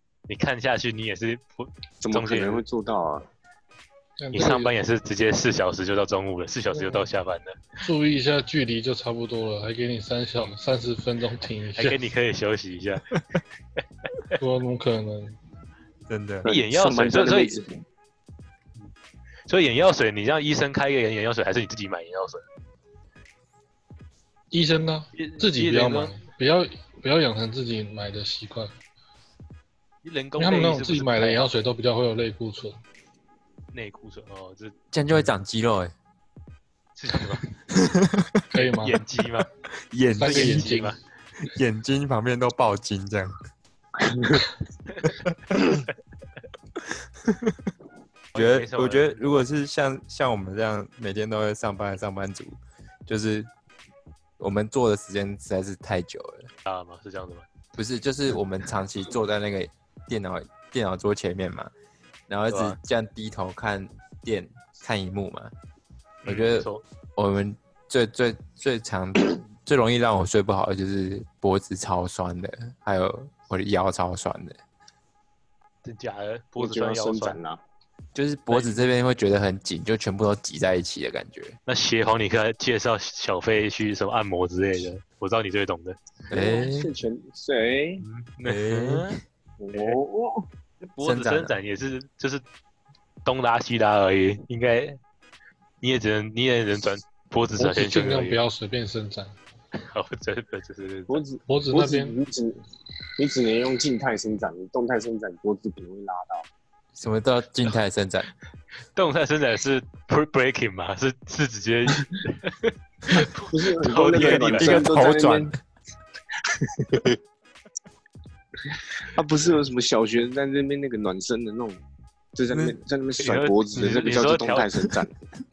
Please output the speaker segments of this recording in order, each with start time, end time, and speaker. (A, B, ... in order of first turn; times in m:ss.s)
0:00.3-0:02.6 A
0:02.0-0:03.3 B
0:04.2-0:04.7 C
0:04.3-0:07.7 A
0:06.7-0:07.1 C
0:07.8-0:12.0 C
0:11.8-0:13.0 A
0:14.4-0:15.4 C
0:16.1-0:16.4 D
0:16.4-0:17.5 A
0:16.4-0:17.7 B
0:19.5-0:22.4 A
0:24.5-0:28.7 C
0:25.2-0:26.1 A
0:30.0-0:31.5 A
0:30.4-0:32.8 C
0:33.7-0:34.7 A
0:34.9-0:35.9 D
0:36.9-0:37.4 A
0:37.7-0:38.4 D
0:38.5-0:39.0 C
0:38.6-0:39.5 A
0:39.7-0:40.8 D
0:40.1-0:41.0 C
0:40.2-0:41.0 A
0:41.5-0:43.4 D
0:44.0-0:44.4 B
0:47.2-0:47.7 D
0:48.3-0:49.4 A
0:48.3-0:53.5 D
0:54.4-0:56.5 D
0:56.6-0:57.4 A
0:57.7-1:01.7 D
1:02.3-1:05.5 D
1:02.5-1:02.8 A
1:06.2-1:06.8 A
1:06.2-1:14.6 D
1:15.8-1:17.4 A
1:16.6-1:17.6 B
1:18.1-1:21.6 D
1:18.5-1:18.9 A
1:21.7-1:26.0 A
1:26.3-1:26.9 D
1:26.3-1:28.0 B
1:28.0-1:29.2 A
1:28.4-1:29.2 D
1:29.6-1:30.5 B
1:30.8-1:32.4 A
1:31.0-1:31.5 D
1:33.2-1:35.0 A
1:35.8-1:38.4 A
1:37.6-1:39.3 C
1:39.7-1:41.2 A
1:41.1-1:42.6 B
1:41.5-1:42.1 C
1:43.2-1:46.5 B
1:46.9-1:48.3 D
1:48.9-1:54.9 A
1:53.4-1:55.5 B
1:54.3-1:55.6 D
1:56.6-1:57.1 B
1:59.1-2:01.8 B
2:02.3-2:05.1 B
2:02.5-2:02.8 D
2:03.2-2:04.8 A